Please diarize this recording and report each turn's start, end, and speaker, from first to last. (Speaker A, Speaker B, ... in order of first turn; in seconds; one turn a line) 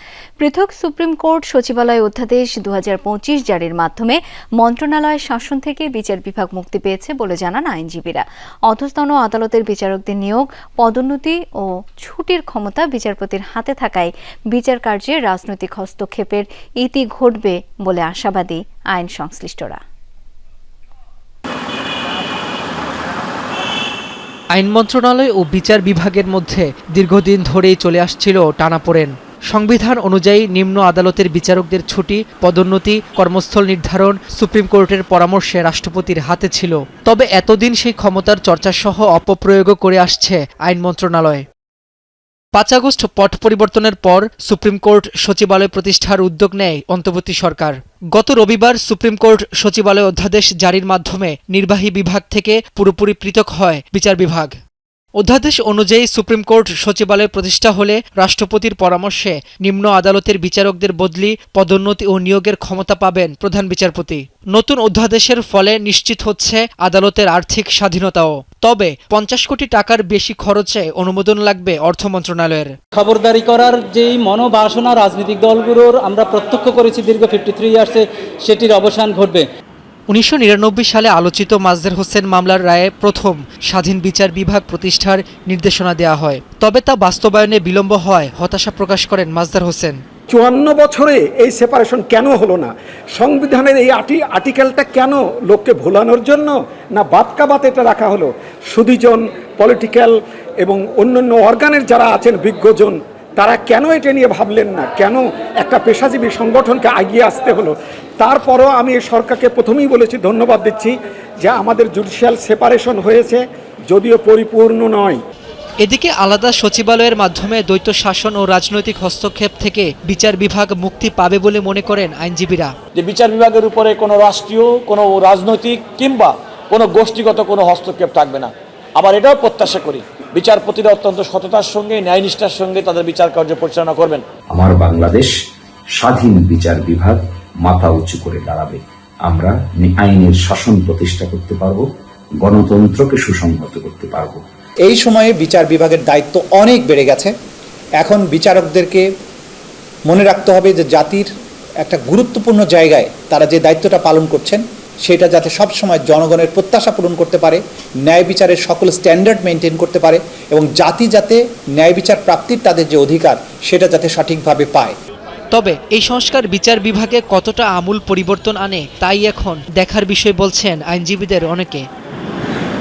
Speaker A: 0.4-19.8
Speaker B: 24.5-41.5
Speaker B: 42.5-54.5
Speaker B: 55.2-72.7
Speaker C: 72.9-79.5
Speaker B: 80.1-90.0
Speaker D: 90.3-115.2
Speaker B: 115.8-122.7
Speaker E: 123.0-134.2
Speaker F: 134.5-135.3
Speaker F: 135.9-141.9
Speaker F: 142.4-144.4
Speaker G: 144.8-147.3
Speaker G: 148.0-149.1
Speaker G: 150.1-151.3
Speaker G: 151.8-164.9
Speaker B: 165.5-171.9